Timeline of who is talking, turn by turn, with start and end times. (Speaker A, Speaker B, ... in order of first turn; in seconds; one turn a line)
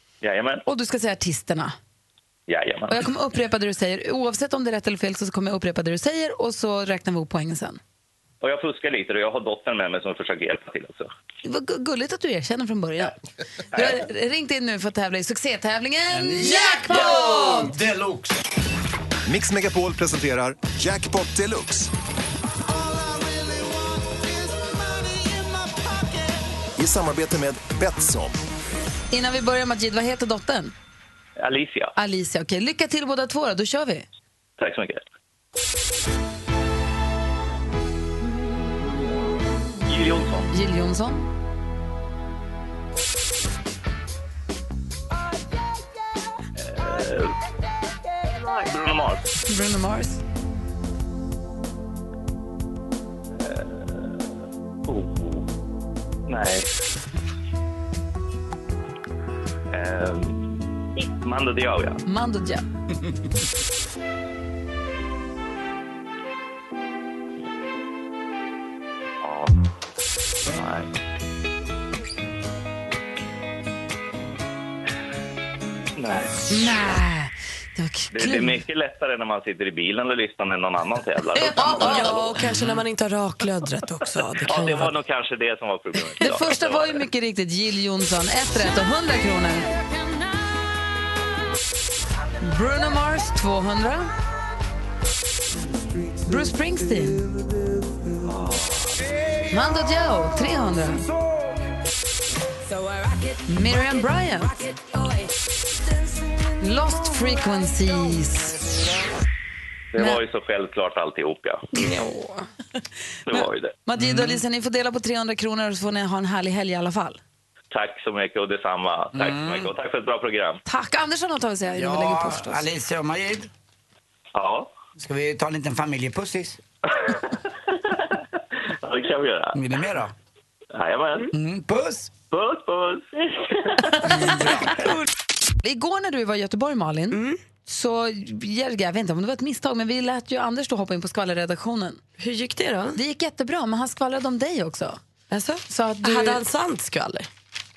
Speaker A: 0.2-0.6
Speaker B: 0.7-1.8
Speaker A: 2.5-3.1
Speaker B: 2.9-7.8
Speaker A: 8.4-11.1
Speaker B: 11.4-13.1
Speaker A: 13.7-14.0
Speaker B: 13.7-17.7
Speaker C: 16.1-18.4
Speaker D: 19.3-21.9
Speaker D: 26.8-28.4
Speaker B: 29.1-30.7
Speaker A: 31.4-31.9
Speaker B: 32.0-34.1
Speaker A: 34.6-35.0
Speaker A: 39.9-40.5
Speaker B: 40.5-41.3
Speaker A: 46.6-47.3
Speaker A: 48.4-49.3
Speaker B: 49.5-50.2
Speaker A: 53.4-54.2
Speaker A: 54.9-55.5
Speaker A: 56.3-56.7
Speaker A: 59.7-60.5
Speaker A: 61.0-62.0
Speaker B: 62.1-62.6
Speaker A: 69.2-69.5
Speaker A: 70.5-70.9
Speaker A: 76.0-76.3
Speaker B: 76.5-78.6
Speaker A: 78.1-82.3
Speaker B: 81.3-82.3
Speaker E: 81.5-84.9
Speaker A: 84.4-87.0
Speaker B: 86.2-89.7
Speaker B: 92.4-94.1
Speaker B: 96.2-97.2
Speaker B: 99.5-101.0
Speaker B: 103.5-104.6
Speaker B: 106.6-108.6
Speaker A: 109.9-111.7
Speaker E: 111.8-112.5
Speaker A: 113.3-113.7
Speaker B: 113.3-117.2
Speaker C: 114.0-114.4
Speaker A: 117.7-120.6
Speaker C: 119.1-119.7
Speaker B: 120.7-122.7
Speaker C: 121.7-123.5
Speaker A: 124.3-124.7
Speaker C: 125.0-126.6
Speaker A: 126.9-128.2
Speaker A: 128.8-129.6
Speaker C: 129.5-130.1
Speaker A: 130.7-131.3
Speaker C: 131.3-132.1
Speaker A: 132.3-134.0
Speaker C: 134.0-134.9
Speaker B: 135.6-142.0
Speaker E: 137.1-137.4
Speaker E: 142.2-143.0
Speaker B: 143.0-145.0
Speaker E: 145.3-147.3
Speaker B: 145.7-146.4